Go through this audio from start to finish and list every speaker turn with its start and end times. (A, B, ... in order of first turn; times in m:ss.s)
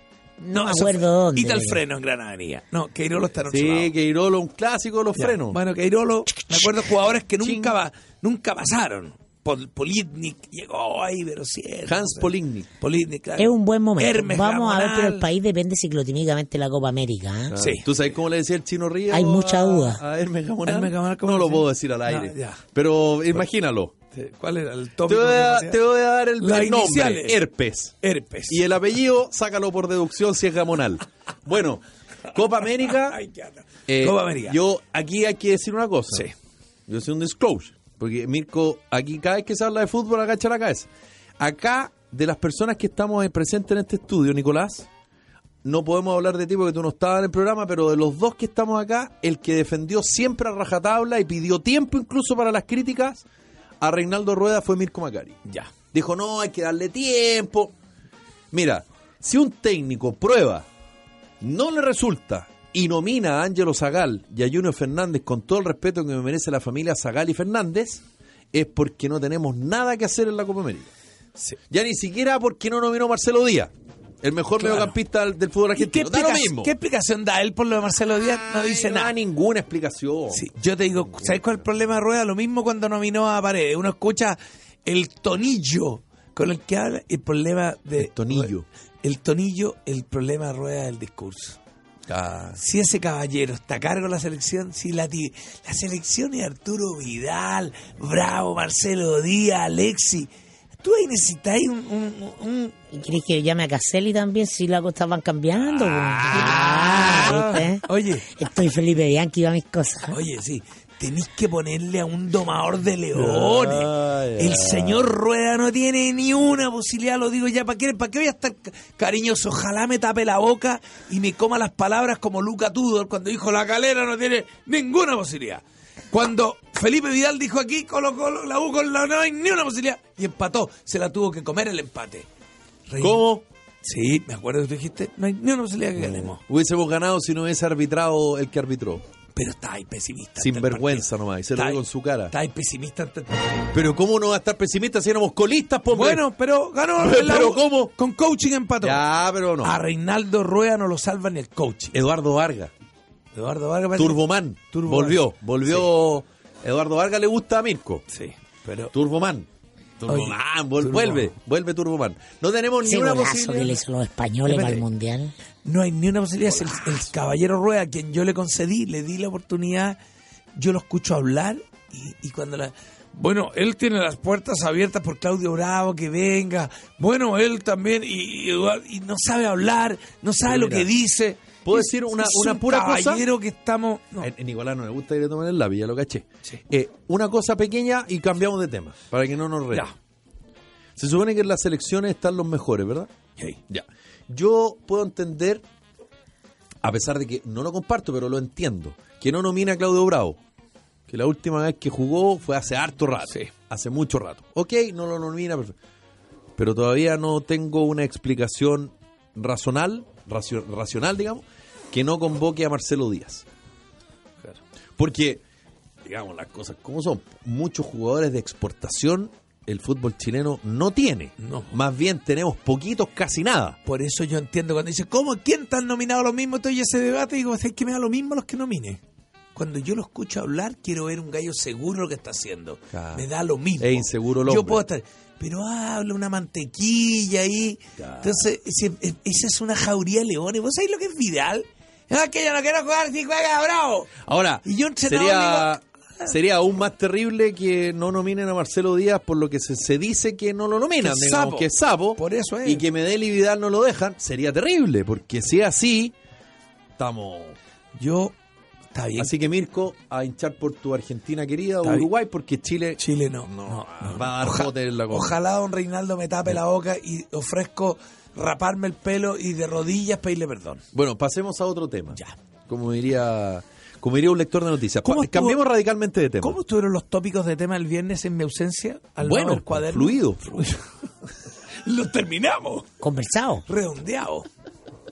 0:00.4-0:01.8 A
0:00.5-0:03.9 B
0:03.5-0:05.6 C
0:05.2-0:15.2 B
0:07.4-0:07.8 C
0:11.9-0:12.7 C
0:13.4-0:17.6 A
0:17.5-0:24.0 C
0:17.6-0:17.9 B
0:19.1-0:20.0 A
0:20.6-0:22.6 B
0:24.1-0:25.8 B
0:25.1-0:28.0 C
0:26.4-0:27.4 B
0:28.0-0:28.6 B
0:28.5-0:33.2 C
0:32.6-0:34.6 B
0:33.9-0:36.3 C
0:36.9-0:44.9 C
0:45.6-0:53.2 C
0:53.8-0:55.4 C
0:55.4-0:55.7 B
0:55.9-0:57.8 C
0:58.5-1:00.7 C
1:01.4-1:10.9 C
1:11.6-1:16.7 C
1:14.6-1:15.0 B
1:15.8-1:19.1 B
1:18.5-1:20.4 C
1:20.3-1:31.6 B
1:28.0-1:28.7 C
1:32.1-1:32.6 C
1:32.6-1:40.3 B
1:40.8-1:42.8 B
1:42.9-1:50.2 A
1:45.9-1:48.3 B
1:46.2-1:47.4 C
1:50.1-2:12.3 B
1:53.1-1:55.1 C
2:12.9-2:13.2 B
2:13.0-2:13.4 C
2:13.8-2:16.4 B
2:16.0-2:19.0 C
2:19.4-2:23.7 B
2:20.4-2:22.3 C
2:23.7-2:26.2 C
2:25.9-2:29.0 B
2:27.0-2:27.9 C
2:28.8-2:29.8 C
2:29.6-2:32.0 B
2:31.9-2:32.7 C
2:33.3-2:35.9 B
2:34.0-2:38.0 C
2:38.1-2:38.9 B
2:38.9-2:39.5 C
2:40.0-2:43.8 C
2:40.1-2:41.3 B
2:42.8-2:45.3 A
2:44.5-2:44.8 C
2:45.6-2:50.0 B
2:46.6-2:47.0 C
2:50.6-3:04.3 B
3:00.4-3:00.9 C
3:01.6-3:03.2 C
3:04.2-3:09.9 C
3:11.0-3:13.1 C
3:13.7-3:15.6 C
3:16.8-3:20.4 C
3:21.1-3:25.8 C
3:26.6-3:33.4 C
3:35.0-3:35.4 C
3:36.0-3:43.8 C
3:41.4-3:41.7 B
3:43.8-3:49.0 B
3:49.6-4:06.3 B
3:52.9-3:53.2 C
3:53.8-3:54.8 C
3:58.0-3:58.4 C
4:04.2-4:16.2 C
4:11.0-4:12.8 B
4:17.0-4:17.6 C
4:18.0-4:18.3 B
4:18.9-4:19.3 B
4:19.2-4:25.4 C
4:21.8-4:22.1 B
4:23.0-4:30.8 B
4:30.9-4:36.6 C
4:35.0-4:35.6 B
4:36.4-4:40.8 B
4:39.2-4:40.6 C
4:41.8-4:42.9 B
4:43.0-4:43.6 A
4:43.7-4:44.5 B